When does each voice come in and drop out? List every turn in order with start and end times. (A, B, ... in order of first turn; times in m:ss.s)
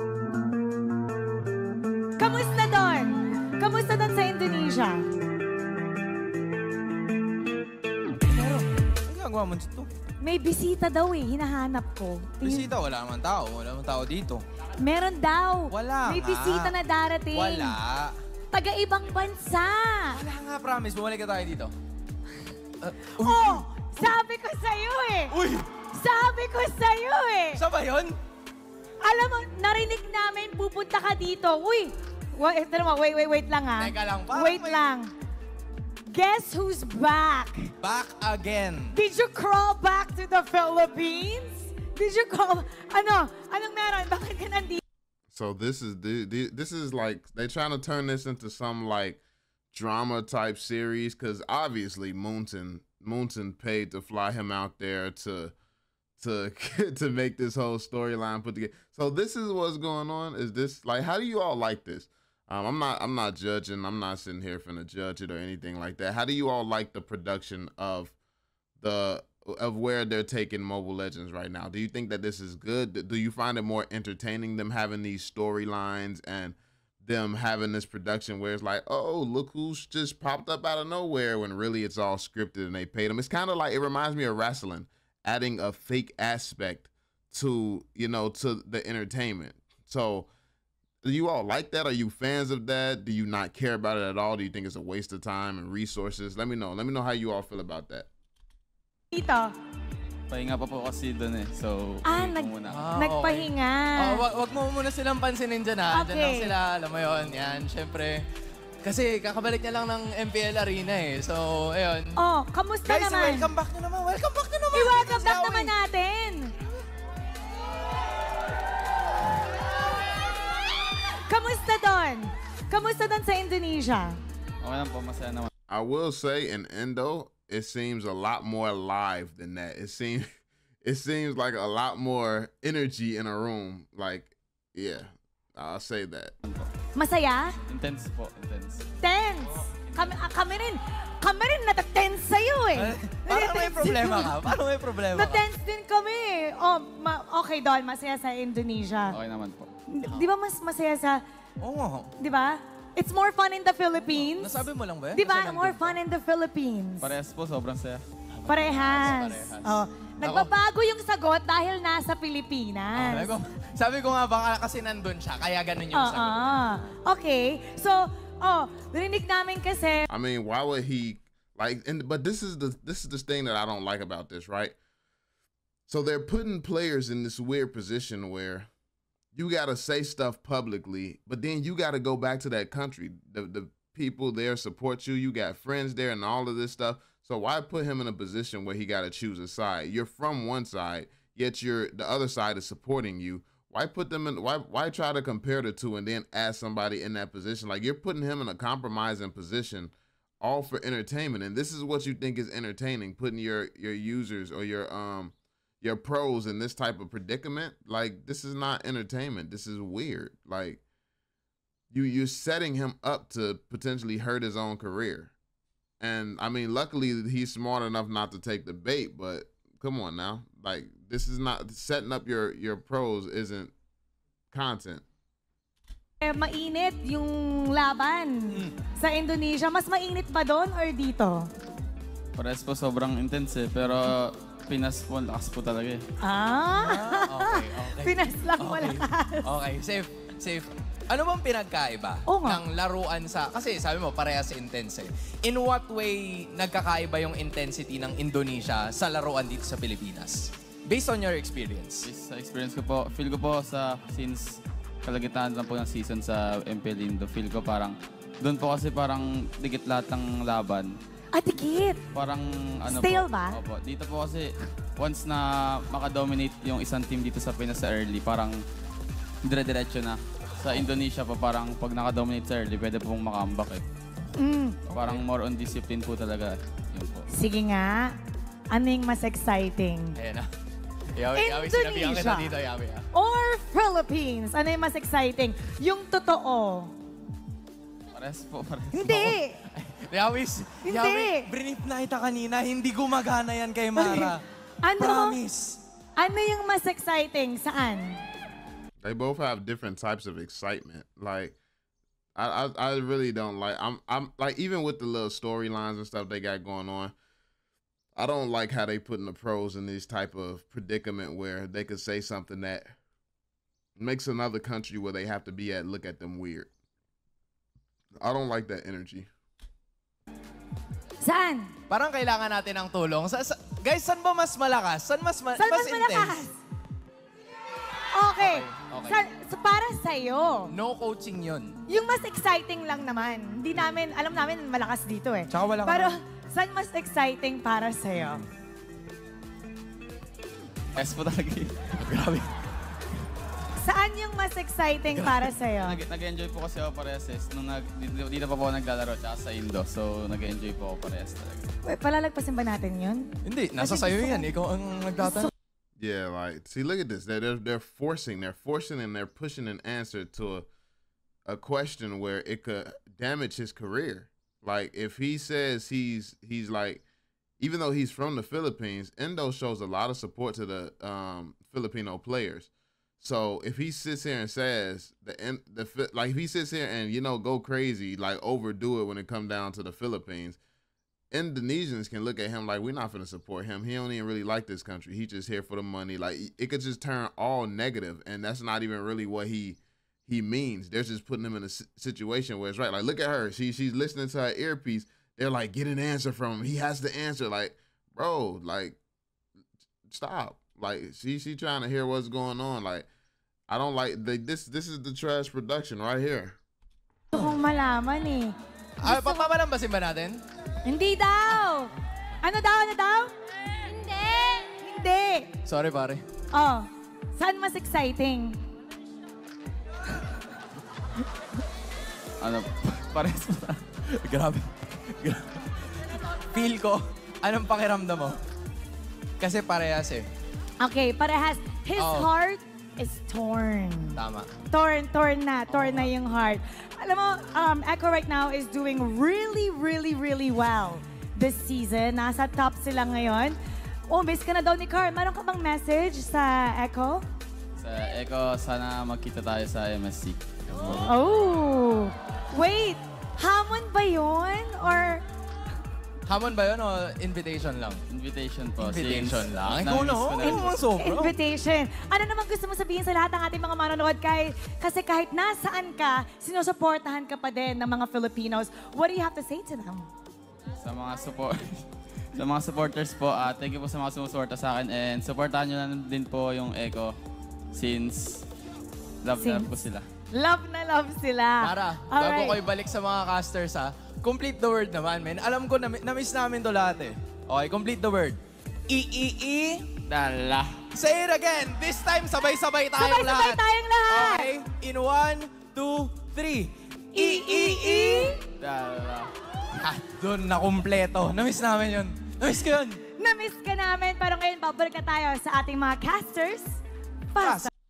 0:02.2-0:05.1 A
0:08.2-0:09.9 B
0:10.2-0:12.7 A
0:12.4-0:14.4 B
0:14.8-0:17.8 A
0:15.7-0:16.7 B
0:17.3-0:18.2 B
0:18.5-0:20.2 A
0:20.1-0:21.7 B
0:22.8-0:24.1 B
0:23.2-0:25.4 A
0:25.3-0:25.7 B
0:25.9-0:27.6 A
0:27.6-0:28.2 B
0:29.0-0:35.1 A
0:33.8-0:34.8 B
0:36.1-0:37.7 A
0:37.8-0:38.9 B
0:38.9-0:44.8 A
0:45.3-0:49.2 C
0:49.7-0:55.6 C
0:56.2-1:08.2 C
1:08.8-1:30.3 C
1:31.0-1:38.1 C
1:39.1-1:39.5 A
1:40.3-1:42.8 D
1:42.0-1:44.2 A
1:42.7-1:48.3 B
1:45.9-1:46.5 A
1:48.8-1:52.2 B
1:52.2-1:53.5 A
1:52.9-1:55.7 B
1:54.7-1:56.5 A
2:00.8-2:04.2 A
2:04.6-2:05.5 D
2:05.7-2:10.3 C
2:10.8-2:16.3 C
2:16.4-2:16.7 D
2:17.0-2:17.5 A
2:17.7-2:18.8 D
2:19.0-2:24.4 A
2:19.9-2:20.2 D
2:22.8-2:25.4 B
2:25.1-2:29.2 A
2:29.1-2:29.7 D
2:29.9-2:31.2 A
2:31.6-2:32.1 B
2:32.2-2:34.6 A
2:34.1-2:36.0 B
2:35.1-2:37.1 A
2:37.0-2:38.0 D
2:38.3-2:39.7 B
2:38.5-2:43.4 A
2:40.2-2:40.5 B
2:42.9-2:46.6 B
2:45.9-2:50.1 A
2:50.1-2:54.8 C
2:55.9-2:58.7 C
2:59.4-3:30.8 C
3:31.9-3:35.3 C
3:36.0-3:43.7 C
3:44.5-3:45.0 C
3:46.2-3:51.5 A
3:52.4-3:56.0 D
3:56.2-3:59.5 A
3:56.7-4:12.1 B
4:02.3-4:02.6 A
4:12.0-4:21.0 D
4:21.3-4:22.0 A
4:22.1-4:28.6 D
4:22.9-4:23.6 A
4:29.4-4:33.8 D
4:34.4-4:34.8 A
4:34.9-4:37.3 D
4:34.9-4:35.2 B
4:37.3-4:38.1 A
4:38.7-4:40.2 A
4:40.2-4:40.5 B
4:41.2-4:43.1 B
4:41.3-4:42.5 A
4:43.1-4:46.9 A
4:48.1-4:49.4 D
4:48.9-4:49.6 A
4:49.8-4:54.4 B
4:50.8-4:51.5 A
4:54.0-4:54.3 A
4:54.8-4:55.4 A
4:55.0-4:55.8 B
4:56.2-4:58.2 A
4:59.0-5:01.6 C
5:02.4-5:07.1 C
5:08.2-5:12.9 C
5:14.0-5:16.7 C
5:18.2-5:19.3 C
5:21.2-5:21.7 A
5:21.9-5:26.4 B
5:25.6-5:26.6 A
5:28.1-5:30.7 A
5:28.4-5:29.2 B
5:30.7-5:31.8 B
5:31.9-5:38.4 A
5:35.5-5:36.2 B
5:41.0-5:42.5 D
5:43.8-5:46.0 A
5:45.8-5:51.7 D
5:51.8-5:54.5 A
5:53.4-5:55.5 B
5:55.2-5:55.5 A
5:56.0-6:00.7 C
6:01.5-6:07.0 C
6:07.6-6:20.6 C
6:21.3-6:39.0 C
6:40.1-6:43.1 C
6:43.7-6:46.6 C
6:47.3-6:49.5 A
6:49.0-6:50.4 B
6:50.8-6:55.5 A
6:55.6-6:56.2 B
6:56.5-6:58.6 A
7:02.4-7:03.8 D
7:04.0-7:08.4 B
7:09.4-7:10.3 B
7:10.8-7:27.3 A
7:12.0-7:12.3 B
7:14.2-7:14.5 B
7:15.7-7:16.1 B
7:27.8-7:31.1 D
7:30.7-7:31.1 B
7:30.9-7:35.2 A
7:36.3-7:38.0 B
7:38.1-7:40.8 D
7:38.8-7:41.4 B
7:40.4-7:50.1 A
7:50.8-7:57.2 D
7:57.7-7:58.5 D
7:59.2-8:00.1 D
7:59.4-7:59.7 A
8:00.3-8:02.6 A
8:01.6-8:10.0 B
8:10.0-8:10.9 D
8:10.9-8:18.4 B
8:13.0-8:14.5 A
8:17.1-8:18.4 A
8:18.6-8:19.3 D
8:19.7-8:23.0 B
8:23.2-8:26.8 A
8:27.3-8:27.7 A
8:27.4-8:27.7 B